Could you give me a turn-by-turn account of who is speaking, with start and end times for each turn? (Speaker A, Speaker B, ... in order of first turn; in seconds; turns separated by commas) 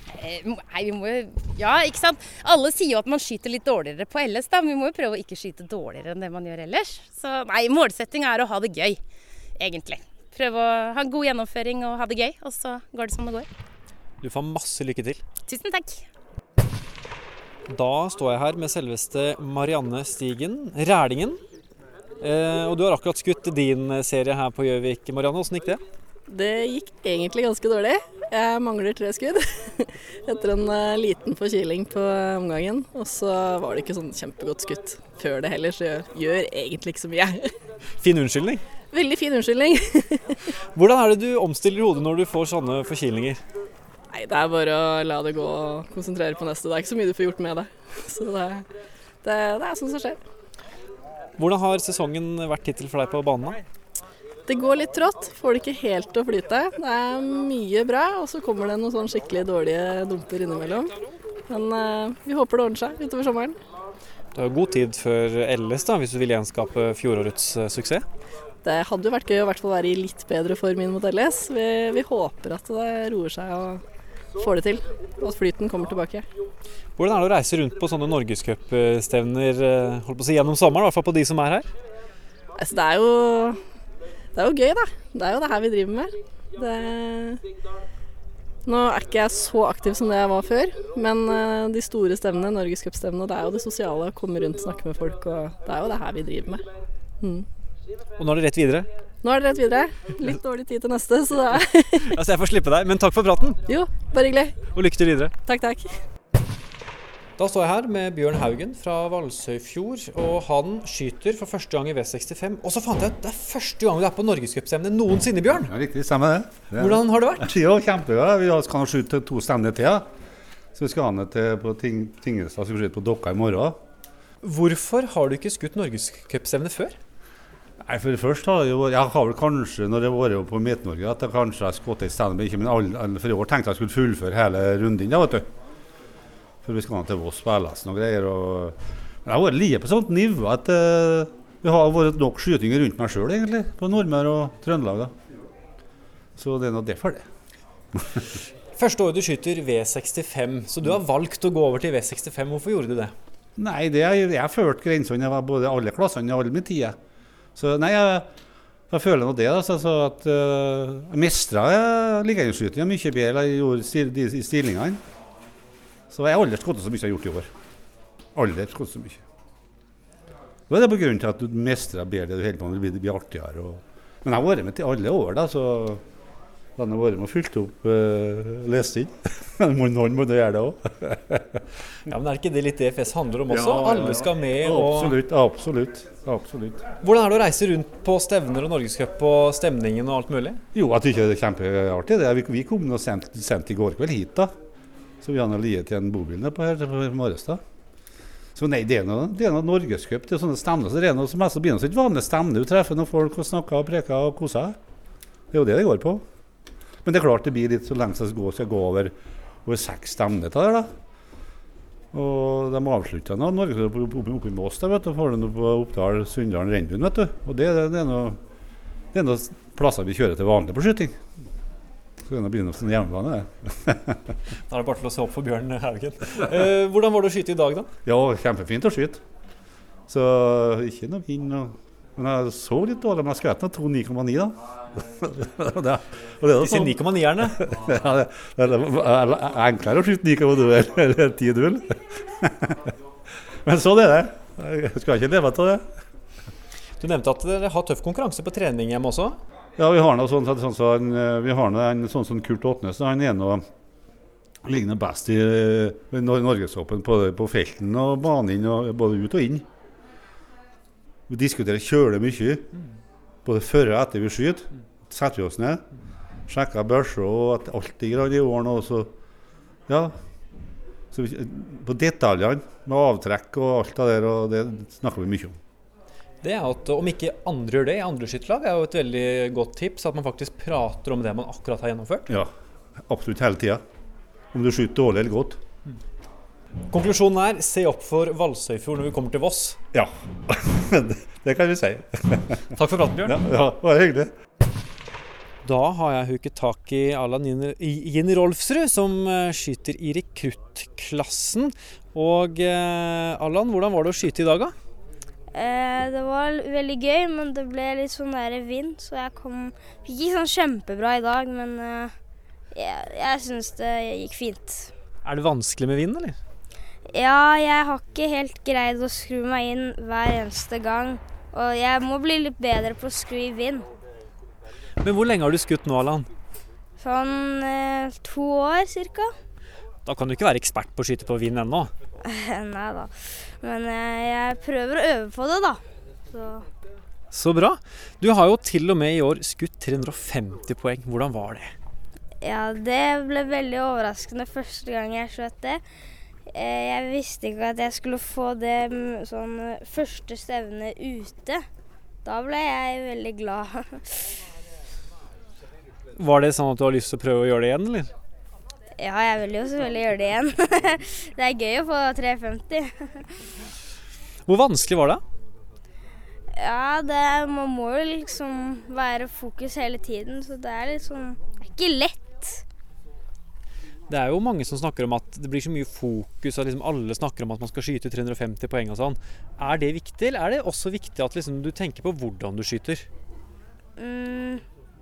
Speaker A: 0.1-9.0, Speaker A: 9.6-13.5, Speaker B: 14.2-15.2, Speaker A: 15.5-16.1, Speaker B: 17.7-21.4, Speaker B: 22.2-25.8, Speaker C: 26.3-37.5, Speaker B: 38.0-38.6, Speaker C: 38.9-40.4, Speaker B: 40.7-43.4, Speaker C: 44.1-48.7, Speaker C: 49.2-50.2, Speaker B: 51.4-53.6, Speaker C: 54.5-61.0, Speaker C: 61.5-63.6, Speaker B: 64.3-68.0, Speaker C: 68.6-73.8, Speaker C: 74.4-76.3, Speaker B: 77.0-81.7, Speaker C: 82.6-83.6, Speaker C: 84.3-87.4, Speaker C: 88.7-96.6, Speaker C: 97.2-97.5, Speaker B: 98.2-98.9, Speaker C: 99.2-102.2, Speaker B: 102.1-103.6, Speaker C: 103.7-104.6, Speaker B: 104.7-105.3, Speaker C: 105.5-106.0, Speaker B: 107.4-115.7, Speaker D: 115.6-120.1, Speaker B: 116.8-117.5, Speaker D: 120.8-123.8, Speaker B: 124.4-127.0, Speaker D: 127.8-135.5, Speaker D: 136.6-145.1, Speaker D: 146.4-147.3, Speaker B: 148.8-153.1, Speaker D: 153.6-157.0, Speaker D: 157.6-158.3, Speaker D: 158.9-165.0, Speaker D: 166.1-167.5, Speaker D: 168.3-169.2, Speaker D: 170.7-176.0, Speaker D: 176.8-181.6, Speaker B: 182.1-185.2, Speaker D: 183.5-186.8, Speaker B: 187.0-190.6, Speaker D: 190.7-194.5, Speaker D: 195.2-197.6, Speaker D: 198.6-204.8, Speaker D: 205.5-206.2, Speaker D: 207.0-209.1, Speaker D: 209.7-210.9, Speaker D: 212.1-218.4, Speaker D: 219.1-221.2, Speaker D: 222.2-224.2, Speaker B: 224.7-227.9, Speaker D: 228.1-229.2, Speaker D: 230.1-242.9, Speaker B: 236.6-237.6, Speaker D: 243.7-245.8, Speaker B: 247.0-249.4, Speaker D: 249.8-253.7, Speaker D: 254.6-259.7, Speaker D: 261.3-262.7, Speaker D: 263.4-265.8, Speaker D: 266.5-269.1, Speaker D: 269.9-270.2, Speaker D: 271.1-275.6, Speaker B: 276.4-282.3, Speaker D: 283.1-283.8, Speaker D: 284.5-285.6, Speaker B: 286.9-289.8, Speaker D: 289.9-292.7, Speaker B: 292.8-293.4, Speaker D: 293.2-294.3, Speaker B: 295.6-304.7, Speaker E: 305.5-312.1, Speaker E: 312.8-314.9, Speaker B: 315.2-316.4, Speaker E: 317.1-323.9, Speaker B: 325.0-326.3, Speaker E: 327.0-329.3, Speaker B: 330.1-331.9, Speaker E: 332.3-336.7, Speaker B: 337.3-341.7, Speaker E: 342.4-345.8, Speaker E: 346.5-351.6, Speaker E: 352.2-354.2, Speaker B: 356.2-358.1, Speaker E: 359.0-363.2, Speaker B: 364.5-365.2, Speaker E: 366.6-372.6, Speaker B: 374.1-383.1, Speaker E: 384.0-384.6